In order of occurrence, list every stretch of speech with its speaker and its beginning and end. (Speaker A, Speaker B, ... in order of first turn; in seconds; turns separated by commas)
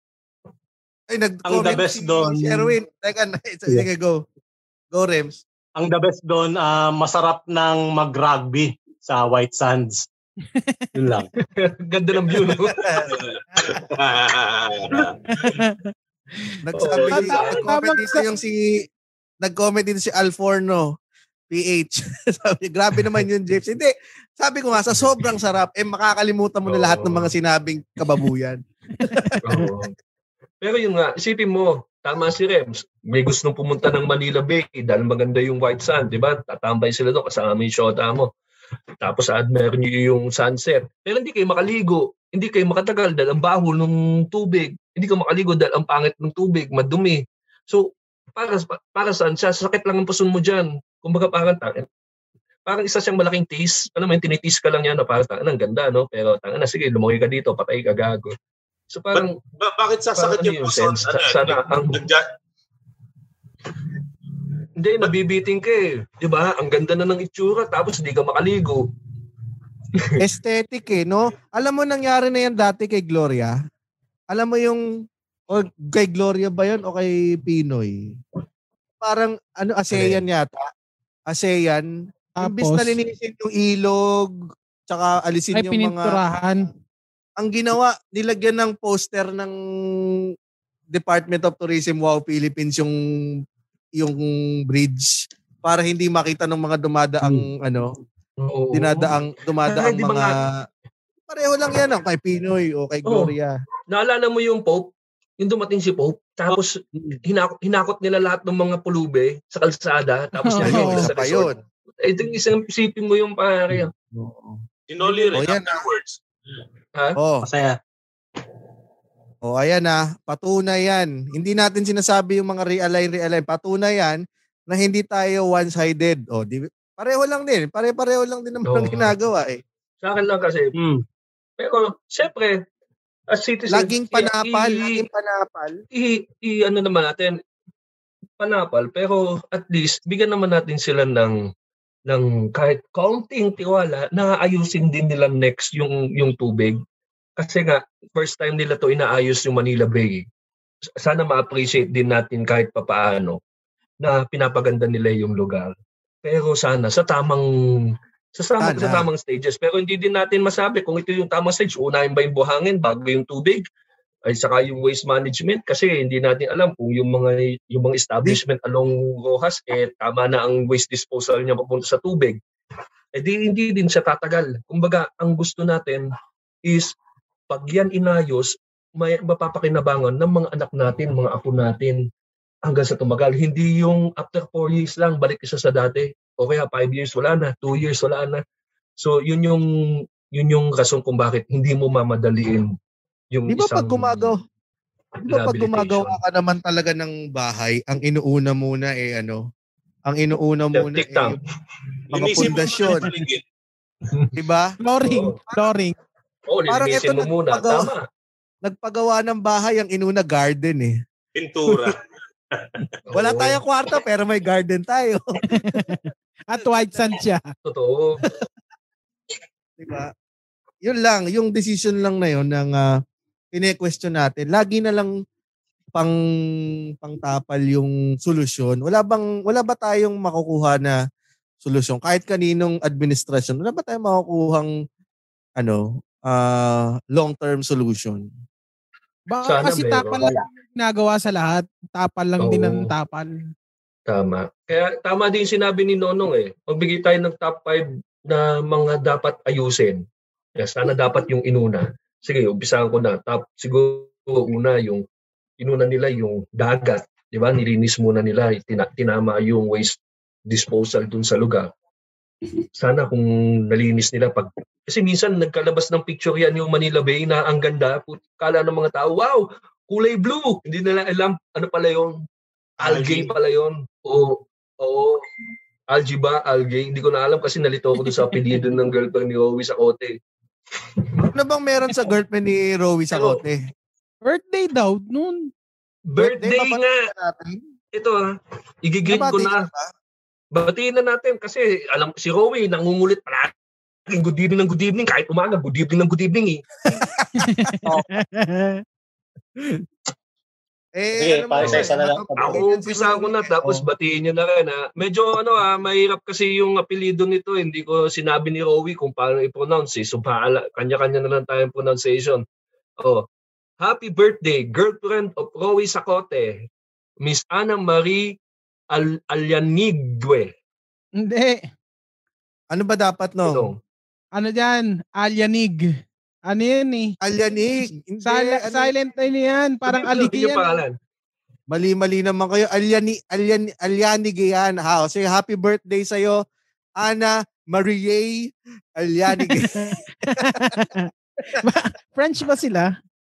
Speaker A: 1.1-4.2, Speaker B: 1.4-2.7, Speaker A: 4.9-5.4, Speaker B: 5.8-10.1, Speaker B: 10.9-11.3, Speaker C: 11.4-13.0, Speaker A: 12.6-13.8, Speaker D: 13.1-15.5, Speaker E: 15.3-15.8, Speaker A: 16.6-18.9, Speaker C: 16.7-17.6, Speaker E: 17.0-18.2, Speaker A: 19.4-20.9, Speaker A: 21.5-29.4, Speaker C: 26.7-27.3, Speaker E: 29.0-29.6, Speaker C: 29.4-29.9, Speaker C: 30.6-38.3, Speaker C: 39.0-51.9, Speaker C: 52.6-58.3, Speaker C: 58.9-59.3, Speaker D: 59.1-62.2, Speaker C: 60.2-62.0, Speaker C: 64.8-68.9, Speaker A: 70.2-73.5, Speaker A: 74.3-74.8, Speaker A: 75.5-78.2, Speaker A: 79.0-80.7, Speaker A: 81.3-81.9, Speaker A: 82.4-86.2, Speaker E: 82.4-83.0, Speaker E: 85.5-86.7, Speaker A: 87.4-89.5, Speaker A: 90.9-93.0, Speaker A: 94.0-97.9, Speaker C: 98.4-100.3, Speaker A: 98.7-100.5, Speaker A: 101.3-103.5, Speaker C: 103.0-103.3, Speaker C: 103.9-104.9, Speaker C: 105.4-111.5, Speaker E: 110.4-111.1, Speaker A: 110.6-111.5, Speaker C: 112.0-113.9, Speaker A: 114.1-114.6, Speaker D: 114.9-116.2, Speaker C: 115.0-115.4, Speaker A: 115.3-115.8, Speaker A: 117.2-117.4, Speaker B: 117.4-117.7, Speaker A: 119.4-129.6, Speaker C: 128.7-129.1, Speaker C: 130.0-130.7, Speaker B: 130.7-131.0, Speaker C: 131.6-132.6, Speaker C: 133.3-135.0, Speaker A: 133.7-135.8, Speaker C: 135.9-137.4, Speaker C: 138.4-141.4, Speaker C: 142.1-146.8, Speaker C: 147.4-150.2, Speaker C: 151.0-153.4, Speaker C: 154.0-155.7, Speaker C: 156.2-163.6, Speaker A: 158.6-159.1, Speaker C: 164.3-172.4, Speaker C: 173.1-176.1, Speaker C: 176.7-176.9, Speaker C: 177.5-182.0, Speaker C: 182.7-188.4, Speaker C: 189.0-189.6, Speaker C: 190.3-192.7, Speaker C: 193.3-194.3, Speaker A: 193.5-194.4, Speaker A: 195.2-199.5, Speaker C: 195.3-196.2, Speaker A: 200.1-201.4, Speaker C: 200.7-201.4, Speaker D: 202.1-203.4, Speaker A: 202.1-203.1, Speaker C: 204.1-204.3, Speaker A: 204.3-204.8, Speaker E: 204.8-205.9, Speaker C: 205.0-205.3, Speaker A: 205.5-205.7, Speaker C: 206.5-208.0, Speaker A: 206.7-207.9, Speaker A: 208.6-210.9, Speaker D: 211.3-212.0, Speaker D: 212.5-212.9, Speaker C: 213.1-213.6, Speaker A: 213.1-215.2, Speaker E: 215.5-217.4, Speaker A: 216.6-216.9, Speaker C: 217.7-218.2, Speaker A: 219.8-220.1, Speaker A: 220.8-222.9, Speaker A: 223.5-225.1, Speaker A: 227.0-231.0, Speaker A: 231.6-234.7, Speaker A: 235.6-238.3, Speaker E: 239.3-243.4, Speaker C: 239.4-240.4, Speaker C: 242.4-242.8, Speaker C: 244.1-250.0, Speaker C: 250.6-255.0, Speaker C: 255.6-261.7, Speaker C: 262.7-272.2, Speaker B: 272.8-273.3, Speaker C: 272.8-275.2, Speaker C: 275.9-280.1, Speaker A: 281.3-283.6, Speaker C: 283.1-283.4, Speaker E: 284.2-285.5, Speaker C: 286.1-286.9, Speaker A: 286.2-287.6, Speaker C: 287.9-288.3, Speaker C: 288.8-289.6, Speaker A: 289.1-289.9, Speaker C: 290.5-293.5, Speaker C: 294.1-296.6, Speaker A: 296.9-298.1, Speaker E: 297.4-298.8, Speaker A: 301.0-303.8, Speaker B: 301.2-302.6, Speaker C: 301.6-312.4, Speaker C: 313.8-316.6, Speaker C: 317.2-318.3, Speaker C: 318.9-320.5, Speaker E: 321.2-321.6, Speaker A: 322.7-323.7, Speaker C: 323.4-323.8, Speaker E: 324.4-325.8, Speaker E: 326.5-327.1, Speaker A: 327.2-328.9, Speaker E: 328.2-330.8, Speaker C: 329.9-330.9, Speaker A: 331.7-336.4, Speaker A: 337.0-340.0, Speaker E: 339.3-341.1, Speaker A: 340.5-340.9, Speaker E: 341.6-342.9